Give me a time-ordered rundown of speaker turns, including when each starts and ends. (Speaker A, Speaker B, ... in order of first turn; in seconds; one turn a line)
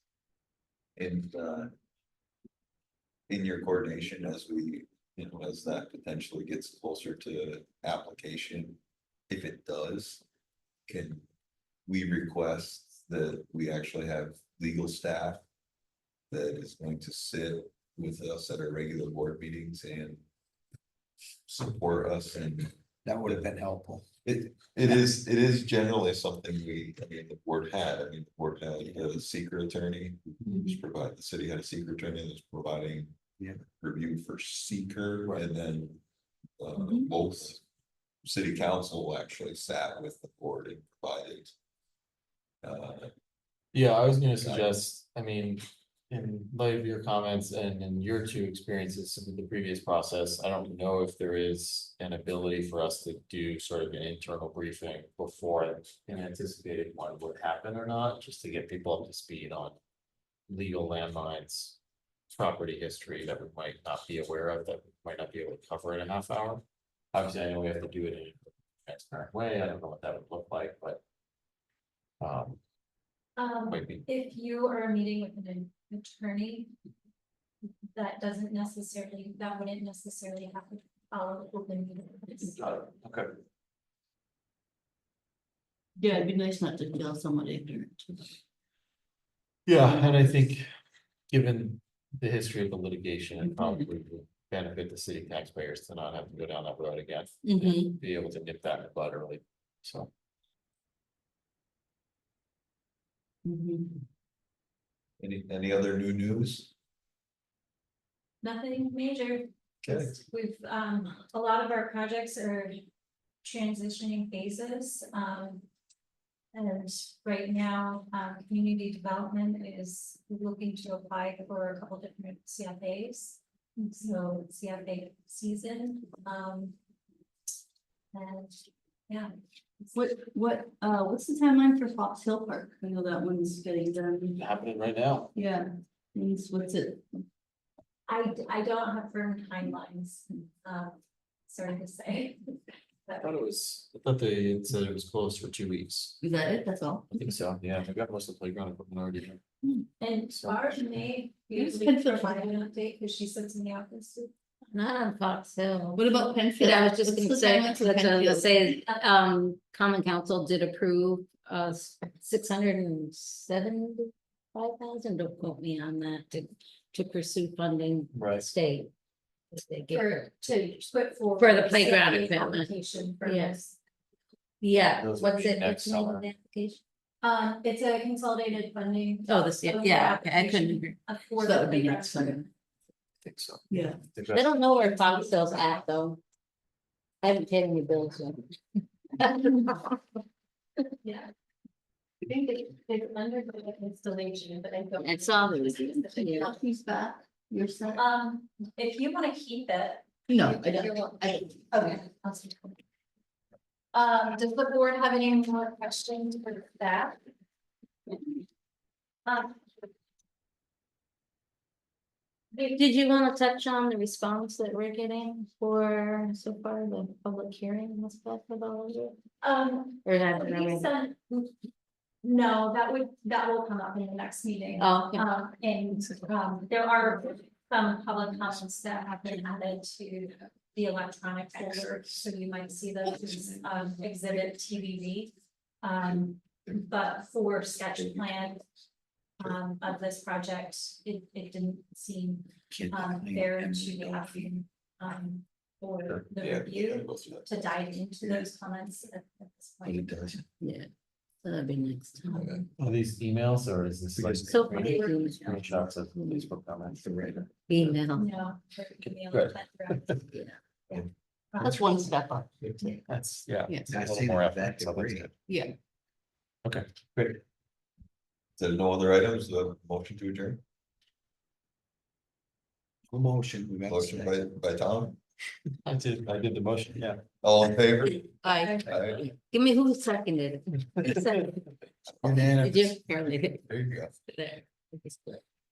Speaker A: 1.0-1.7
Speaker A: 3.3-10.2
Speaker A: 10.9-11.2
Speaker A: 11.9-15.4
Speaker A: 16.3-20.2
Speaker A: 21.5-23.6
Speaker B: 23.1-24.1
Speaker A: 24.2-36.0
Speaker C: 30.5-30.8
Speaker A: 36.6-37.6
Speaker C: 36.8-37.1
Speaker A: 38.2-41.5
Speaker A: 42.6-43.1
Speaker D: 43.7-59.8
Speaker A: 44.4-44.7
Speaker D: 60.5-61.8
Speaker D: 62.3-71.0
Speaker D: 72.2-72.6
Speaker E: 73.4-76.7
Speaker D: 73.7-74.1
Speaker E: 77.9-82.6
Speaker D: 82.6-83.3
Speaker C: 86.0-88.4
Speaker D: 89.7-90.7
Speaker C: 89.7-90.3
Speaker D: 91.3-100.1
Speaker C: 93.4-93.9
Speaker C: 97.4-98.0
Speaker C: 103.5-104.0
Speaker A: 105.2-106.7
Speaker E: 108.4-112.8
Speaker A: 109.8-110.2
Speaker E: 113.4-115.7
Speaker E: 116.5-126.8
Speaker E: 128.1-129.3
Speaker C: 129.9-134.4
Speaker D: 134.4-135.3
Speaker C: 135.3-137.3
Speaker E: 138.1-143.4
Speaker D: 143.2-146.2
Speaker C: 146.2-147.1
Speaker D: 147.1-149.4
Speaker E: 150.0-154.3
Speaker D: 150.3-150.7
Speaker C: 151.5-152.5
Speaker F: 154.7-168.9
Speaker C: 156.0-158.8
Speaker D: 168.1-168.5
Speaker F: 169.5-170.3
Speaker E: 169.9-173.8
Speaker F: 171.4-173.6
Speaker F: 174.6-176.8
Speaker D: 175.0-176.3
Speaker E: 177.2-182.5
Speaker F: 179.3-181.0
Speaker C: 181.4-182.4
Speaker D: 183.2-184.6
Speaker C: 183.7-184.0
Speaker F: 184.3-186.2
Speaker E: 184.8-185.7
Speaker F: 187.2-188.5
Speaker F: 189.2-190.0
Speaker E: 191.0-191.3
Speaker E: 192.2-196.5
Speaker F: 195.0-196.6
Speaker C: 196.3-198.0
Speaker E: 197.9-202.8
Speaker C: 200.3-201.8
Speaker E: 203.9-207.2
Speaker E: 209.3-209.7
Speaker E: 212.5-212.8
Speaker F: 212.8-219.2
Speaker E: 219.4-221.6
Speaker F: 220.1-220.9
Speaker E: 222.2-238.6
Speaker F: 224.8-225.3
Speaker E: 239.4-250.4
Speaker B: 242.7-244.5
Speaker A: 246.4-248.5
Speaker B: 249.8-250.4
Speaker F: 250.6-250.9
Speaker F: 251.4-252.5
Speaker E: 252.2-252.6
Speaker A: 252.3-252.7
Speaker D: 252.8-258.0
Speaker B: 254.2-254.7
Speaker F: 254.5-256.4
Speaker E: 254.7-255.7
Speaker B: 257.0-257.5
Speaker F: 257.7-258.3
Speaker E: 258.1-260.3
Speaker D: 259.0-260.2
Speaker E: 260.9-261.9
Speaker C: 261.6-263.0
Speaker D: 263.1-265.3
Speaker C: 263.7-263.9
Speaker B: 263.9-265.3
Speaker C: 265.4-265.7
Speaker A: 268.6-270.6
Speaker B: 273.1-274.5
Speaker A: 273.9-275.2
Speaker D: 275.8-277.2
Speaker A: 277.4-278.3
Speaker F: 278.4-281.6
Speaker E: 278.5-278.9
Speaker A: 278.8-279.3
Speaker A: 282.2-283.0
Speaker F: 282.2-283.8
Speaker B: 282.3-282.7
Speaker A: 283.7-284.1
Speaker F: 284.3-285.4